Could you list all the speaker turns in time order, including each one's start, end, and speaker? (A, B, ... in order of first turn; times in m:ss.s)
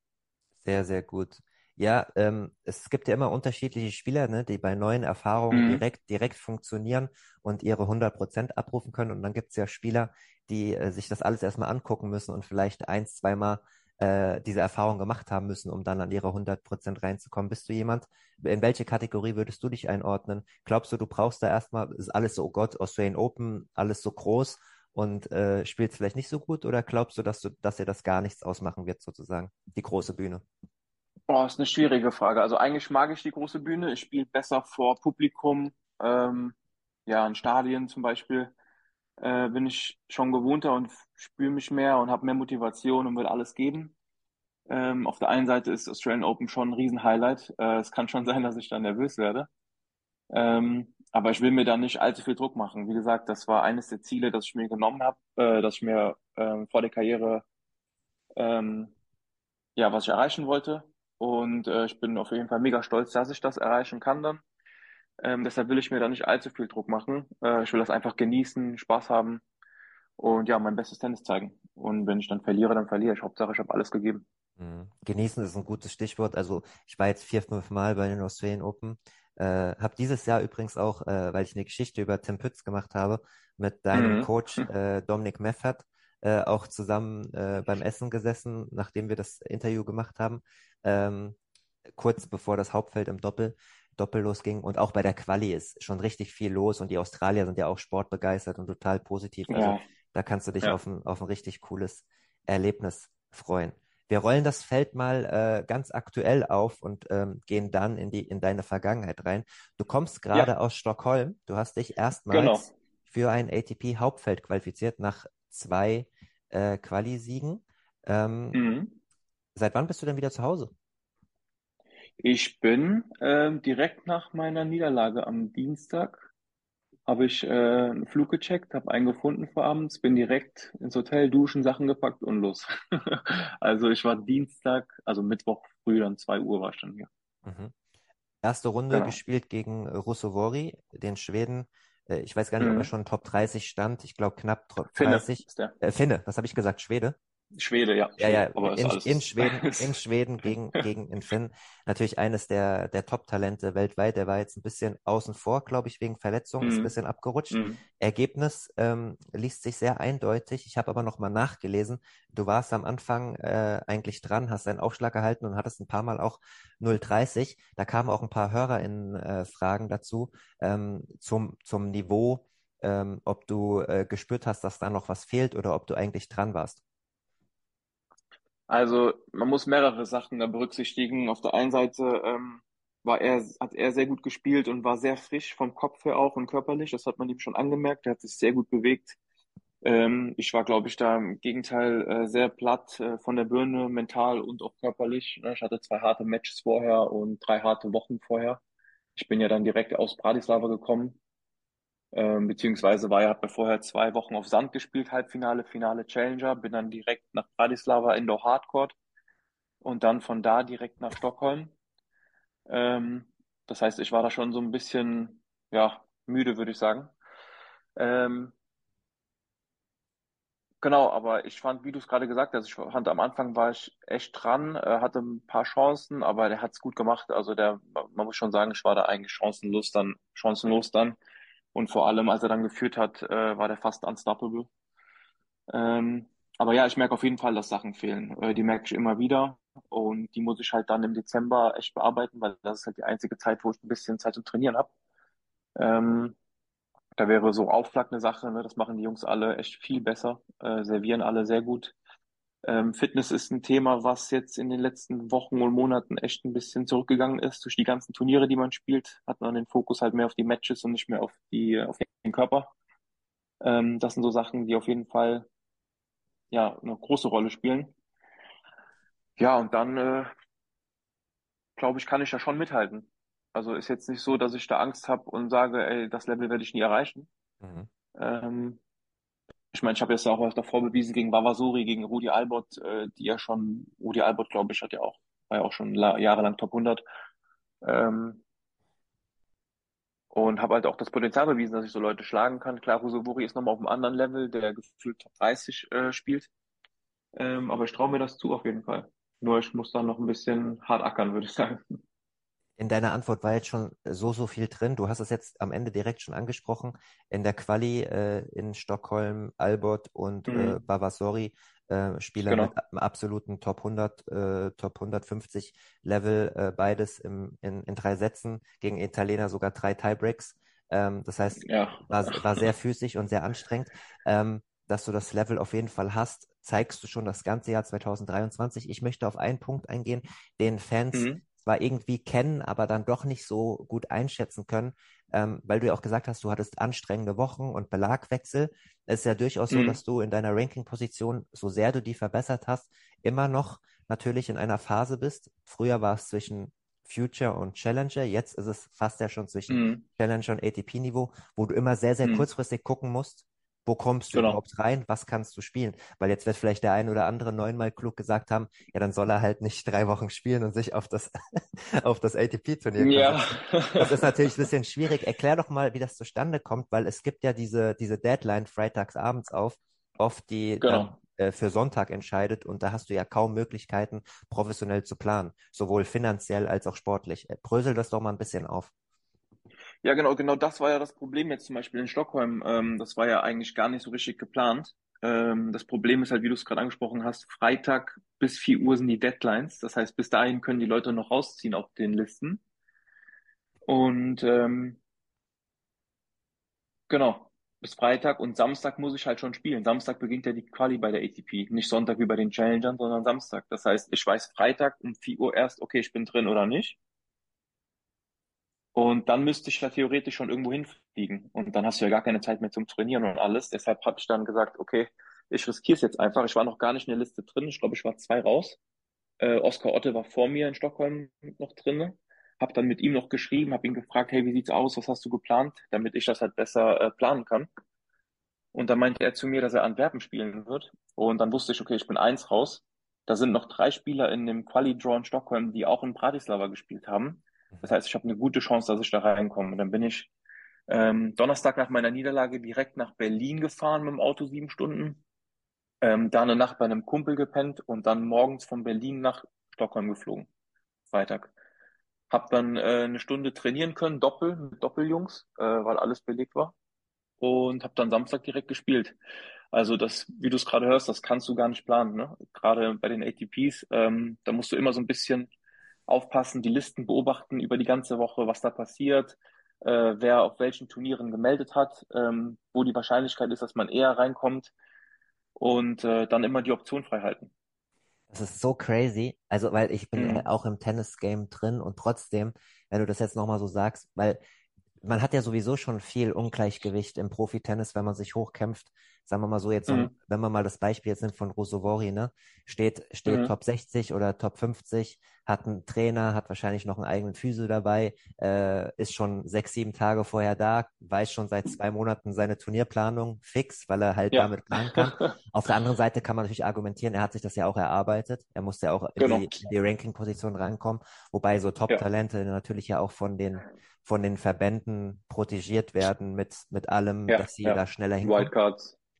0:00.6-0:30.4 A
0:05.5-0:05.8 B
0:31.3-0:36.6 B
0:37.1-0:38.5 B
0:39.2-0:44.0 B
0:44.7-0:49.5 B
0:50.3-0:57.4 B
0:58.4-0:58.9 B
0:59.8-1:04.4 B
1:05.2-1:09.4 B
1:10.2-1:14.2 B
1:14.6-1:31.4 A
1:23.9-1:24.7 B
1:31.9-1:58.6 A
1:39.5-1:39.8 B
1:52.3-1:52.7 B
1:58.5-1:59.0 B
1:59.6-2:00.7 A
2:02.2-2:06.3 B
2:07.1-2:17.1 B
2:17.4-2:17.7 A
2:18.4-2:27.2 A
2:18.9-2:19.2 B
2:22.6-2:22.9 B
2:25.0-2:25.8 B
2:27.6-2:30.0 B
2:28.2-2:56.8 A
2:36.6-2:36.9 B
2:37.5-2:37.8 B
2:58.7-3:09.2 B
3:09.8-3:18.6 B
3:19.2-3:21.2 B
3:22.1-3:29.0 B
3:29.8-3:31.7 B
3:32.7-3:37.1 B
3:38.0-3:38.5 B
3:40.8-3:51.2 B
3:51.8-3:54.7 B
3:55.7-4:04.9 B
4:05.8-4:06.4 B
4:07.2-4:12.0 B
4:12.6-4:22.7 B
4:23.6-4:25.5 B
4:26.5-4:27.9 B
4:29.4-4:30.3 B
4:31.8-4:37.3 B
4:37.6-4:37.9 A
4:38.2-4:38.8 B
4:39.7-4:47.0 B
4:47.8-4:48.4 B
4:50.3-4:56.5 B
4:57.4-5:01.9 B
5:02.8-6:18.9 A
5:10.5-5:10.8 B
5:12.5-5:12.7 B
5:21.6-5:22.7 B
5:31.1-5:31.4 B
5:39.7-5:40.0 B
5:49.7-5:50.0 B
5:54.3-5:54.6 B
6:03.0-6:04.5 B
6:10.8-6:11.2 B
6:20.0-6:32.6 B
6:33.9-6:35.0 B
6:37.1-6:47.0 B
6:49.0-6:58.8 B
6:59.4-7:07.7 B
7:08.7-7:20.3 B
7:20.9-7:25.2 B
7:26.0-7:30.5 B
7:31.1-7:31.5 B
7:32.3-7:36.7 B
7:37.4-7:39.2 B
7:39.7-7:45.5 B
7:46.1-7:54.7 B
7:55.6-7:57.5 B
7:58.3-8:04.4 A
8:00.2-8:00.5 B
8:05.0-8:38.5 A
8:09.9-8:10.1 B
8:13.3-8:13.6 B
8:24.3-8:25.4 B
8:29.2-8:29.6 B
8:37.3-8:39.0 B